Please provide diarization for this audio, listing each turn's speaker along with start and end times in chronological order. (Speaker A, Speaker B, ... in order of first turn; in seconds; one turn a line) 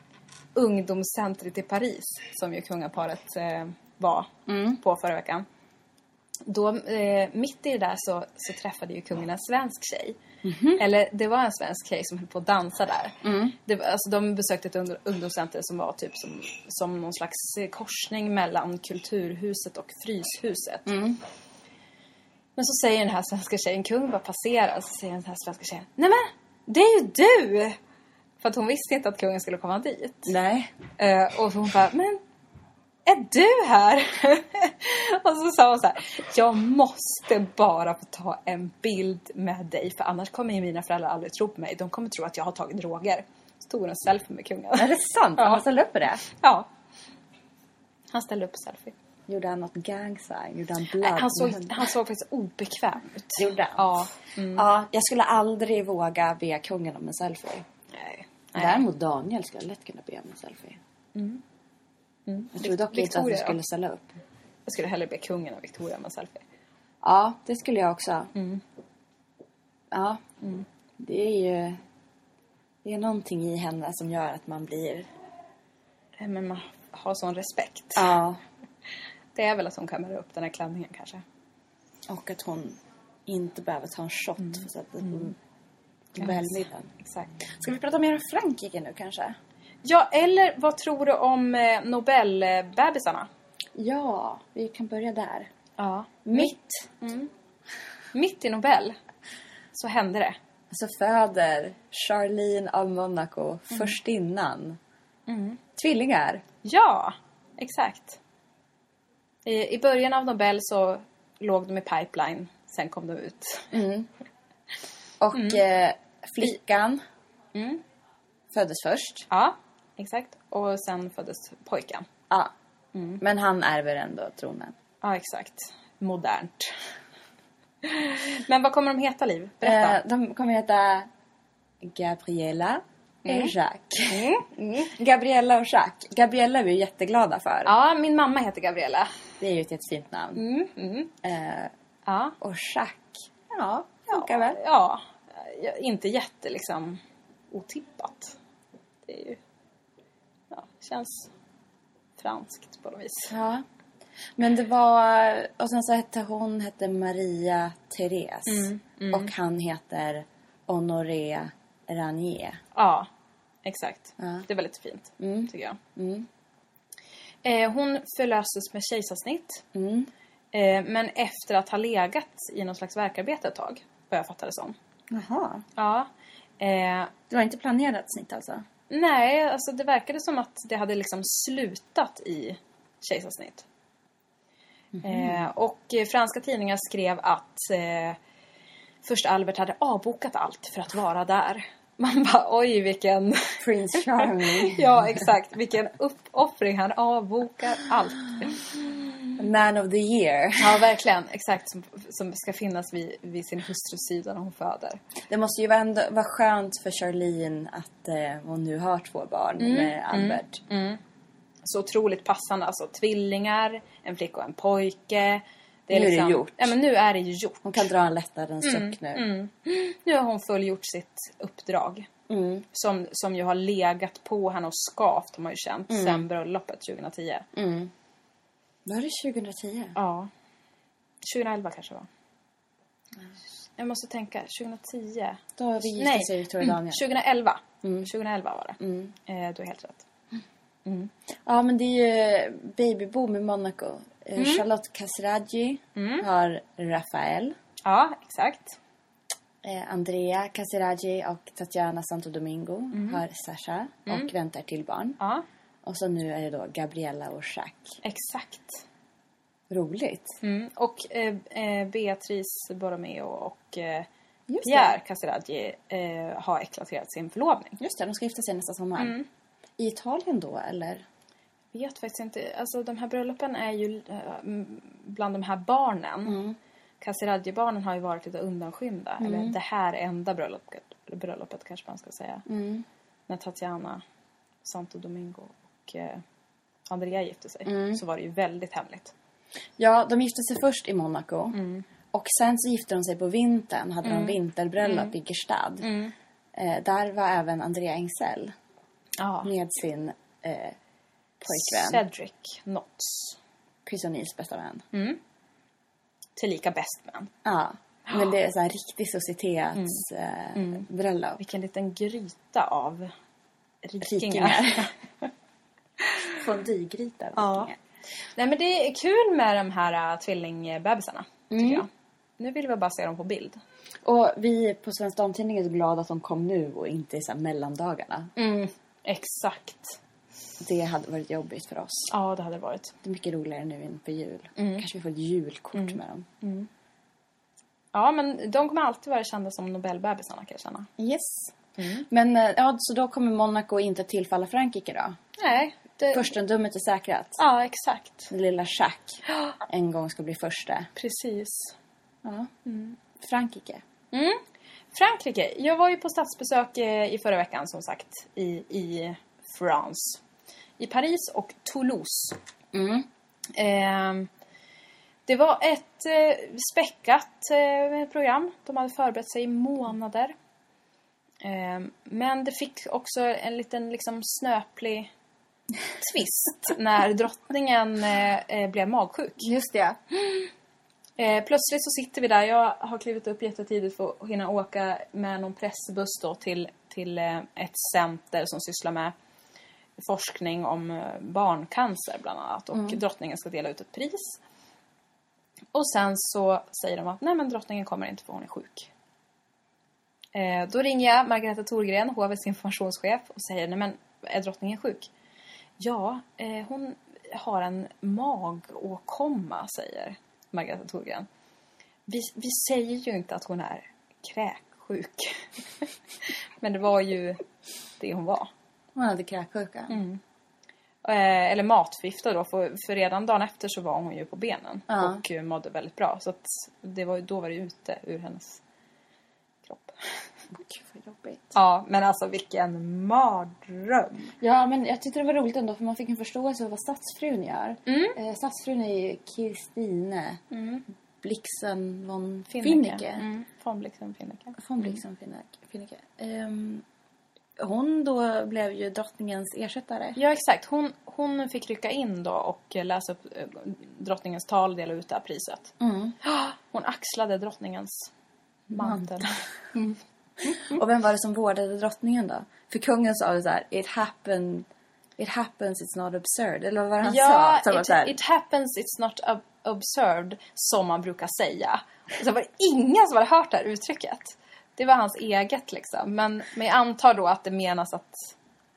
Speaker A: 0.5-5.5
Speaker B: 4.5-4.8
Speaker A: 6.4-10.2
Speaker B: 10.4-10.8
Speaker A: 10.8-20.9
Speaker B: 13.2-13.6
Speaker B: 20.9-21.2
Speaker A: 22.6-27.8
Speaker A: 28.4-30.3
Speaker B: 30.3-30.7
Speaker A: 31.0-32.2
Speaker A: 33.0-45.6
Speaker B: 44.8-46.2
Speaker A: 46.2-46.7
Speaker A: 48.1-48.9
Speaker B: 49.3-51.8
Speaker A: 51.0-54.6
Speaker B: 53.4-57.6
Speaker A: 57.9-58.8
Speaker B: 58.5-60.8
Speaker A: 61.1-61.4
Speaker A: 62.3-63.6
Speaker B: 62.5-64.2
Speaker A: 64.7-66.4
Speaker B: 67.0-68.3
Speaker A: 68.3-68.6
Speaker B: 69.9-70.2
Speaker B: 71.0-71.8
Speaker B: 72.8-75.1
Speaker A: 76.2-78.1
Speaker B: 78.0-78.4
Speaker A: 79.3-81.2
Speaker B: 82.1-85.3
Speaker A: 84.4-85.3
Speaker B: 86.1-86.9
Speaker A: 86.2-87.3
Speaker B: 87.5-89.3
Speaker A: 89.8-93.3
Speaker B: 93.8-95.5
Speaker A: 95.8-97.3
Speaker B: 96.2-96.9
Speaker A: 98.1-99.0
Speaker A: 99.7-100.4
Speaker B: 100.7-104.8
Speaker A: 105.3-105.6
Speaker B: 105.8-106.4
Speaker A: 106.6-108.2
Speaker A: 109.4-113.7
Speaker B: 113.7-114.1
Speaker B: 115.2-117.0
Speaker A: 115.3-115.6
Speaker A: 117.5-117.8
Speaker B: 118.5-119.3
Speaker A: 119.3-122.1
Speaker A: 122.9-123.2
Speaker B: 123.2-124.7
Speaker A: 125.0-126.8
Speaker A: 127.8-130.0
Speaker B: 129.6-131.1
Speaker B: 131.8-134.3
Speaker A: 133.2-133.5
Speaker A: 134.1-134.9
Speaker B: 134.9-137.7
Speaker A: 137.6-139.1
Speaker B: 139.4-140.4
Speaker A: 140.3-141.1
Speaker B: 141.2-141.7
Speaker A: 142.1-142.4
Speaker B: 142.4-143.2
Speaker A: 143.5-148.4
Speaker B: 144.1-144.6
Speaker A: 149.0-149.4
Speaker A: 150.5-151.3
Speaker A: 152.2-153.3
Speaker B: 153.3-153.6
Speaker B: 154.4-162.6
Speaker A: 158.5-159.3
Speaker A: 162.7-163.1
Speaker A: 163.6-165.8
Speaker B: 164.2-164.5
Speaker B: 165.2-166.2
Speaker A: 167.4-169.6
Speaker B: 169.7-170.1
Speaker A: 170.5-174.8
Speaker B: 175.1-175.6
Speaker A: 175.8-177.1
Speaker B: 177.3-178.6
Speaker A: 178.9-183.7
Speaker B: 184.9-185.4
Speaker A: 185.0-188.2
Speaker A: 189.0-198.7
Speaker B: 193.6-195.2
Speaker B: 199.3-200.8
Speaker A: 200.6-205.0
Speaker B: 205.3-210.6
Speaker A: 209.6-211.0
Speaker A: 211.6-217.9
Speaker B: 215.9-216.7
Speaker B: 217.6-219.3
Speaker A: 218.6-222.1
Speaker B: 222.3-222.6
Speaker A: 222.7-227.5
Speaker B: 225.9-226.2
Speaker B: 227.5-227.9
Speaker B: 228.8-230.0
Speaker A: 229.9-230.3
Speaker A: 231.2-232.1
Speaker A: 233.8-235.4
Speaker B: 235.6-237.0
Speaker A: 235.9-240.0
Speaker B: 237.8-238.1
Speaker B: 238.8-239.1
Speaker A: 240.8-241.1
Speaker B: 241.4-247.5
Speaker A: 244.4-244.6
Speaker A: 245.9-246.3
Speaker A: 247.8-248.8
Speaker B: 249.6-255.2
Speaker A: 252.9-253.2
Speaker A: 255.2-255.4
Speaker B: 255.8-257.9
Speaker A: 258.0-258.8
Speaker B: 259.7-260.4
Speaker A: 260.4-264.1
Speaker B: 264.5-264.9
Speaker A: 264.6-267.8
Speaker B: 267.8-269.2
Speaker A: 269.0-269.3
Speaker B: 269.8-271.0
Speaker A: 271.7-276.4
Speaker B: 276.2-276.6
Speaker A: 277.0-282.4
Speaker B: 279.2-279.6
Speaker B: 282.5-282.8
Speaker A: 283.3-284.0
Speaker A: 284.6-286.2
Speaker A: 286.9-289.1
Speaker B: 287.6-288.0
Speaker B: 289.8-291.6
Speaker A: 291.5-291.9
Speaker B: 292.1-295.9
Speaker A: 294.0-295.1
Speaker A: 295.8-296.1
Speaker B: 296.6-298.5
Speaker A: 299.2-299.5
Speaker B: 299.4-300.8
Speaker B: 301.4-302.0
Speaker A: 301.4-303.4
Speaker B: 303.9-304.8
Speaker A: 304.9-305.2
Speaker A: 306.4-307.3
Speaker B: 307.4-311.4
Speaker A: 309.7-310.0
Speaker A: 310.5-310.9
Speaker A: 311.4-313.1
Speaker A: 313.8-314.9
Speaker B: 314.0-314.9
Speaker B: 316.3-317.8
Speaker A: 317.4-317.7
Speaker A: 318.4-321.9
Speaker B: 321.5-321.8
Speaker A: 322.4-323.6
Speaker B: 324.0-328.3
Speaker A: 328.4-330.0
Speaker B: 330.6-332.1
Speaker A: 332.1-332.9
Speaker B: 333.0-336.3
Speaker A: 334.6-334.8
Speaker A: 335.7-336.7
Speaker A: 337.9-340.9
Speaker B: 341.0-341.5
Speaker A: 341.8-342.1
Speaker B: 342.1-345.2
Speaker A: 345.4-346.3
Speaker B: 346.1-347.4
Speaker A: 347.4-348.3
Speaker B: 348.3-350.9
Speaker A: 350.9-351.8
Speaker B: 352.2-352.5
Speaker A: 352.6-352.9
Speaker B: 353.2-353.8
Speaker A: 354.1-354.4
Speaker A: 354.9-360.2
Speaker A: 360.8-362.4
Speaker B: 362.7-363.1
Speaker A: 363.5-364.3
Speaker A: 365.2-370.3
Speaker A: 371.4-375.1
Speaker A: 376.0-379.5
Speaker B: 379.4-380.5
Speaker A: 381.2-389.1
Speaker A: 390.0-394.4
Speaker B: 392.7-393.0
Speaker A: 395.7-398.9
Speaker A: 400.3-405.1
Speaker A: 405.8-411.3
Speaker A: 412.1-417.4
Speaker A: 418.0-418.5
Speaker B: 418.9-420.0
Speaker A: 419.9-420.2
Speaker A: 421.0-428.6
Speaker B: 424.9-425.2
Speaker A: 429.6-430.0
Speaker B: 430.5-431.5
Speaker A: 431.5-434.3
Speaker B: 434.4-440.4
Speaker A: 437.9-438.2
Speaker A: 440.5-440.8
Speaker B: 441.2-443.2
Speaker A: 442.5-445.0
Speaker B: 444.6-446.8
Speaker B: 447.6-450.2
Speaker A: 450.1-455.7
Speaker B: 455.8-456.1
Speaker A: 456.2-458.1
Speaker B: 458.7-459.1
Speaker A: 458.7-459.4
Speaker B: 459.7-464.6
Speaker B: 465.2-468.1
Speaker A: 467.0-478.3